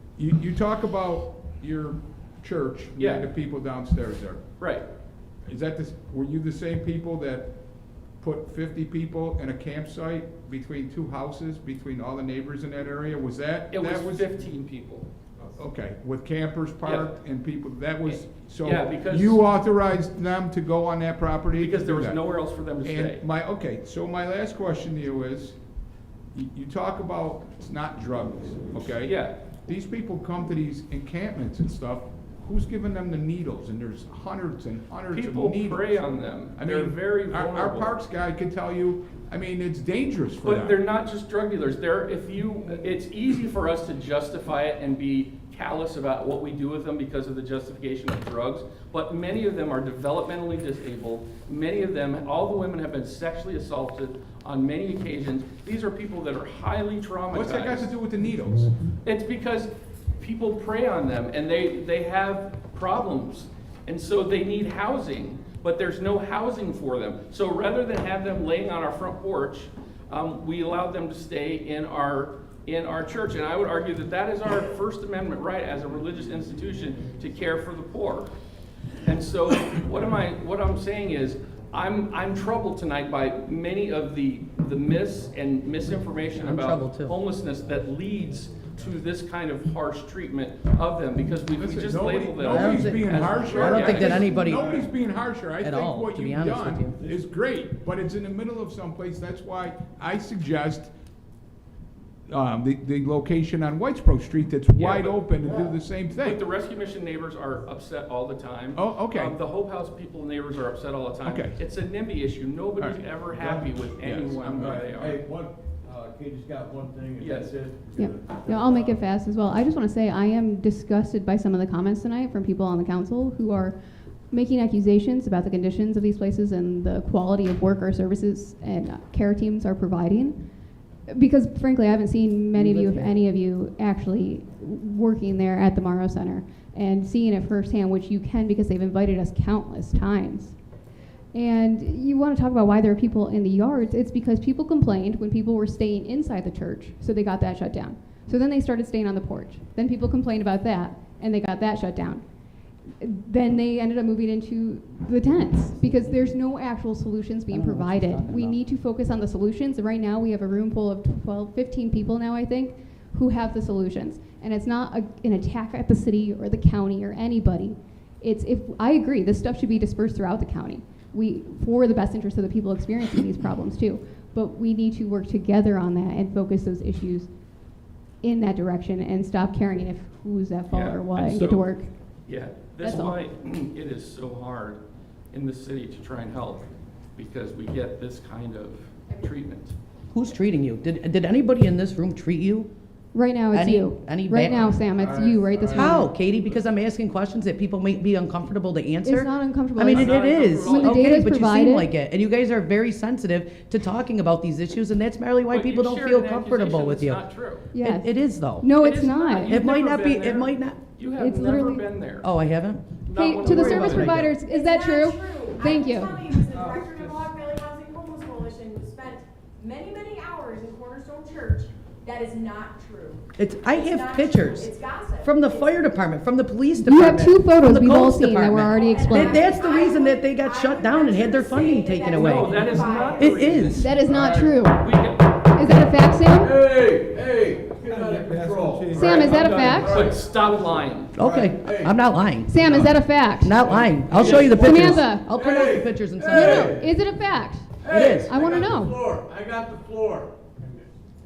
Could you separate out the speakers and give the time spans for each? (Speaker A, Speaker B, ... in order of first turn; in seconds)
Speaker A: 0.2-4.4, 5.5-7.5, 8.2-14.3, 15.4-22.2, 22.8-25.6, 26.3-36.0, 36.6-40.8, 57.3-58.7, 91.6-100.9, 102.3-106.4, 108.8-109.4, 111.2-111.6, 114.0-115.0, 234.1-234.6, 237.9-239.6
Speaker B: 3.0-3.2, 4.6-4.9, 13.7-15.1, 16.8-17.1, 18.1-19.4, 21.6-23.2, 29.0-29.4, 35.1-38.0, 40.4-58.0, 59.0-78.3, 79.0-94.4, 104.8-105.3, 106.1-115.2, 117.2-117.6, 180.7-181.7, 182.3-184.8, 185.3-189.8, 199.9-201.2, 205.5-207.7, 208.8-212.3, 213.1-214.2, 232.1-234.0, 234.7-235.5, 239.4-241.1
Speaker C: 86.4-87.2, 92.5-94.9, 95.6-97.0, 132.5-133.3, 155.7-156.3, 157.5-158.6, 190.1-192.7, 193.5-194.8, 195.7-207.2, 207.8-208.7, 209.4-210.8, 212.2-214.3, 223.4-233.9, 241.2-242.8, 243.4-246.8, 247.9-248.4
Speaker D: 97.0-97.2, 105.5-105.7, 113.3-113.7, 114.4-119.0, 195.0-196.0, 236.3-242.0, 242.6-243.0, 243.6-246.9, 247.8-250.9
Speaker E: 118.0-123.8, 124.3-130.4, 131.1-140.6, 141.3-152.2, 153.0-177.3, 178.2-181.9, 182.8-183.2, 193.1-196.1, 199.0-201.9, 207.7-209.6, 211.2-211.9, 213.1-216.3, 226.8-229.5, 233.7-234.9, 235.5-236.5, 238.9-240.0, 242.5-243.7, 244.3-245.3, 246.2-249.0
Speaker F: 214.4-225.8, 228.7-233.6